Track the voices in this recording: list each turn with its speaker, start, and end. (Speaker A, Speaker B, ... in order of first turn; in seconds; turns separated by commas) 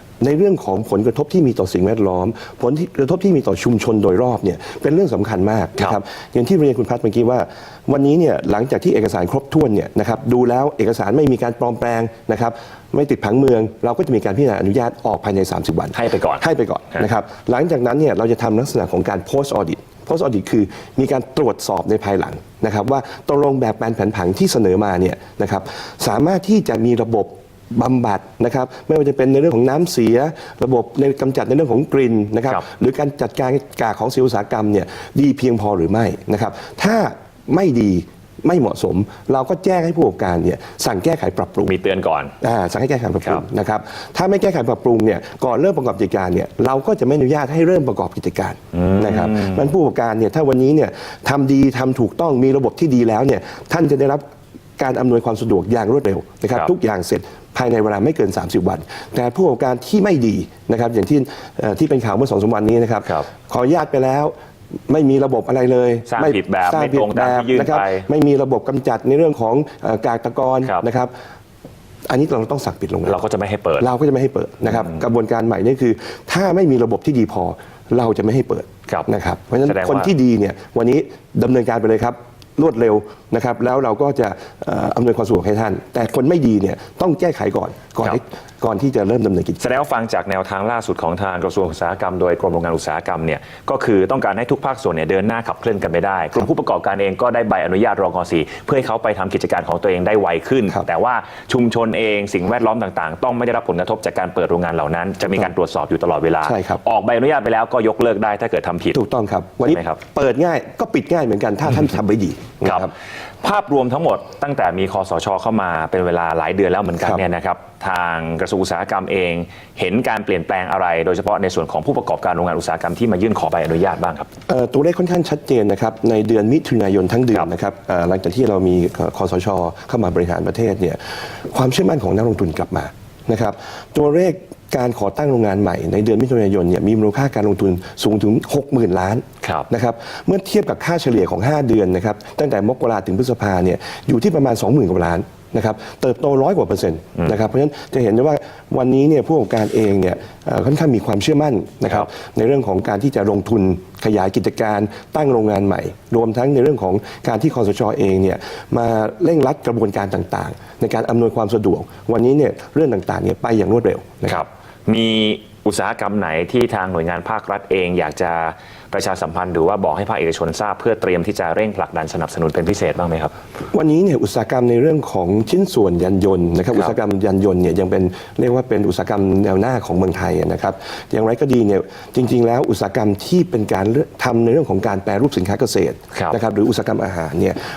Speaker A: 0.2-41.7, Speaker B: 15.9-16.4, Speaker B: 41.6-42.3, Speaker A: 42.4-54.2, Speaker B: 48.8-49.5, Speaker A: 54.8-64.3, Speaker A: 64.9-71.1, Speaker B: 66.1-68.0, Speaker A: 72.1-73.2, Speaker B: 73.0-73.9, Speaker A: 73.8-89.7, Speaker B: 79.6-80.1, Speaker B: 89.6-109.0, Speaker A: 106.4-106.8, Speaker A: 108.9-112.9, Speaker B: 109.7-110.0, Speaker B: 112.6-112.9, Speaker B: 113.4-124.3, Speaker A: 124.5-131.0, Speaker A: 131.5-164.4, Speaker B: 164.2-173.3, Speaker A: 173.7-187.6